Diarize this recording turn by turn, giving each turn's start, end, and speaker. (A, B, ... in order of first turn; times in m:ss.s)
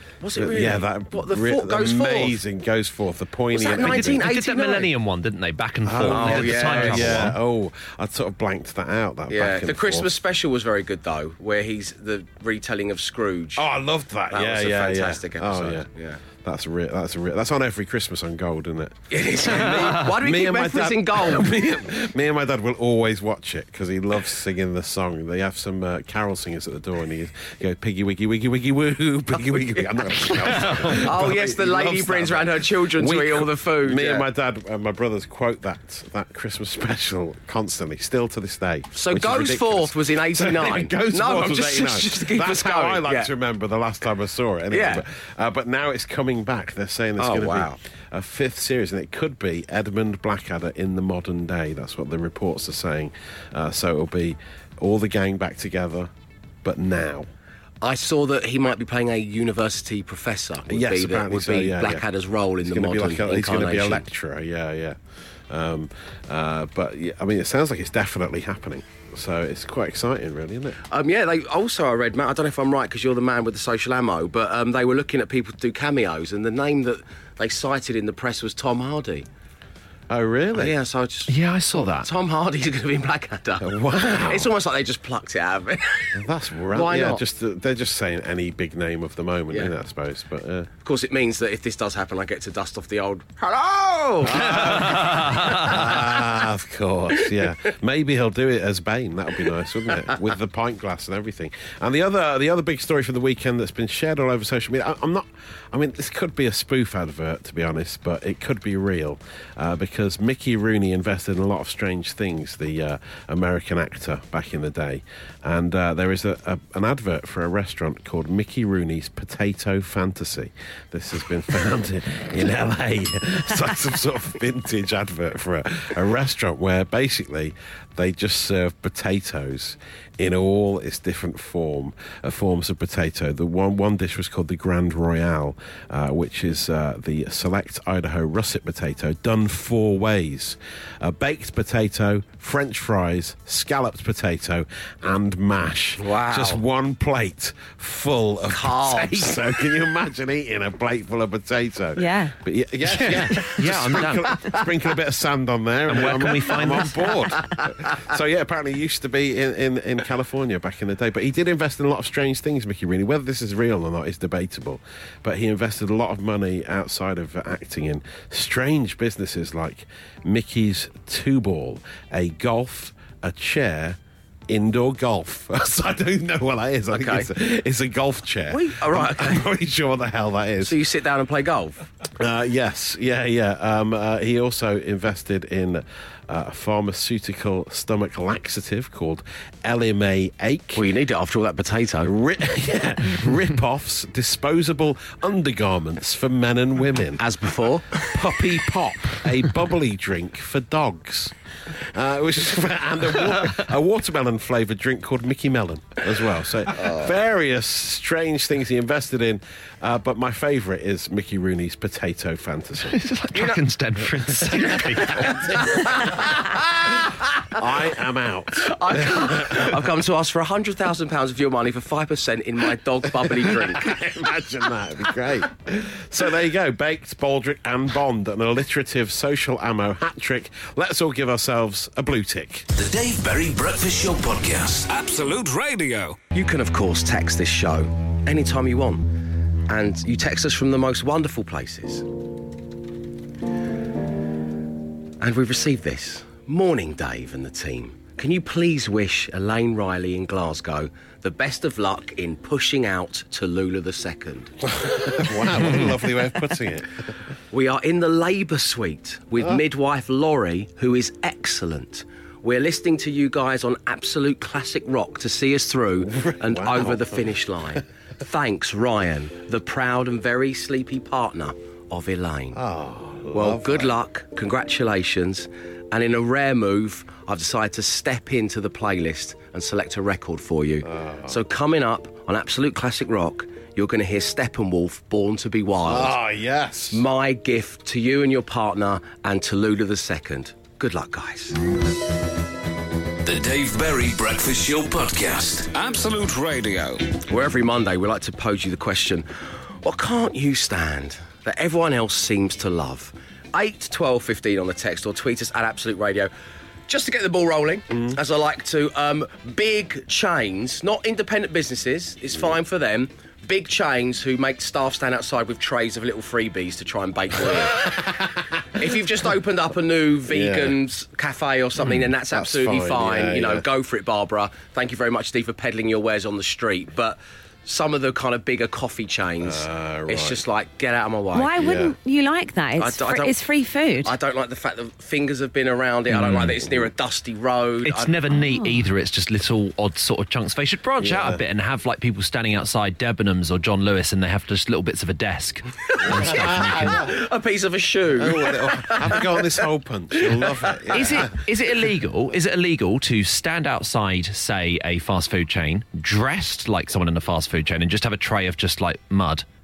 0:00.2-0:02.4 A
0:00.4-0:04.3 B
0:03.5-0:04.9 A
0:03.7-0:07.3 C
0:05.8-0:10.1 B
0:06.1-0:07.3 A
0:09.3-0:13.6 A
0:13.6-0:56.1 B
0:14.3-0:16.2 A
0:19.1-0:21.5 A
0:29.4-0:34.2 A
0:30.6-0:31.0 C
0:38.9-0:43.3 A
0:44.7-0:45.0 A
0:47.2-0:47.7 A
0:56.6-0:57.3 B
0:57.8-1:04.0 A
1:00.7-1:02.0 B
1:02.6-1:10.8 B
1:10.9-1:19.2 A
1:20.1-1:20.7 B
1:20.5-1:26.2 A
1:21.3-1:22.1 C
1:23.6-1:24.5 B
1:26.2-1:30.7 B
1:26.7-1:27.2 A
1:30.8-1:35.9 A
1:34.2-3:00.8 B
2:26.0-2:26.6 A
2:28.5-2:29.6 A
2:32.0-2:32.3 D
2:32.9-2:34.3 C
2:35.9-2:37.3 C
2:36.2-2:36.8 A
2:37.3-2:37.7 A
2:56.9-2:57.3 A
2:58.5-2:59.4 A
3:00.6-3:01.9 A
3:02.2-3:10.8 B
3:10.7-3:12.1 A
3:12.0-3:17.2 B
3:17.2-3:18.2 A
3:18.1-3:33.0 B
3:26.7-3:27.1 A
3:32.9-3:35.2 C
3:33.3-3:33.7 A
3:34.4-3:37.6 A
3:35.0-3:36.3 B
3:37.5-3:39.8 B
3:38.6-3:44.0 A
3:43.2-3:52.7 B
3:52.7-3:54.9 E
3:54.9-3:56.2 F
3:56.3-3:59.1 A
3:59.7-4:02.0 A
4:05.2-4:14.5 A
4:14.7-4:16.9 B
4:17.5-4:32.6 A
4:26.0-4:27.8 B
4:32.5-4:34.0 B
4:33.3-4:46.1 A
4:40.8-4:41.4 B
4:45.8-4:47.0 B
4:46.9-4:51.6 A
4:53.2-4:55.7 E
4:55.7-4:57.2 F
4:57.3-4:59.2 A
4:59.8-5:06.3 A
5:06.9-5:18.0 A
5:18.0-5:18.8 B
5:18.8-5:31.5 A
5:20.3-5:20.8 B
5:22.3-5:23.6 B
5:29.4-5:30.4 B
5:31.3-5:34.1 D
5:31.5-5:32.0 B
5:32.8-5:33.3 A
5:34.0-5:38.3 A
5:36.1-5:36.5 C
5:36.6-5:36.9 B
5:37.8-5:47.0 C
5:38.5-5:38.8 D
5:41.0-5:41.4 B
5:45.9-5:49.6 A
5:46.0-5:47.2 B
5:48.1-5:51.3 B
5:50.2-5:51.2 A
5:50.9-5:59.4 C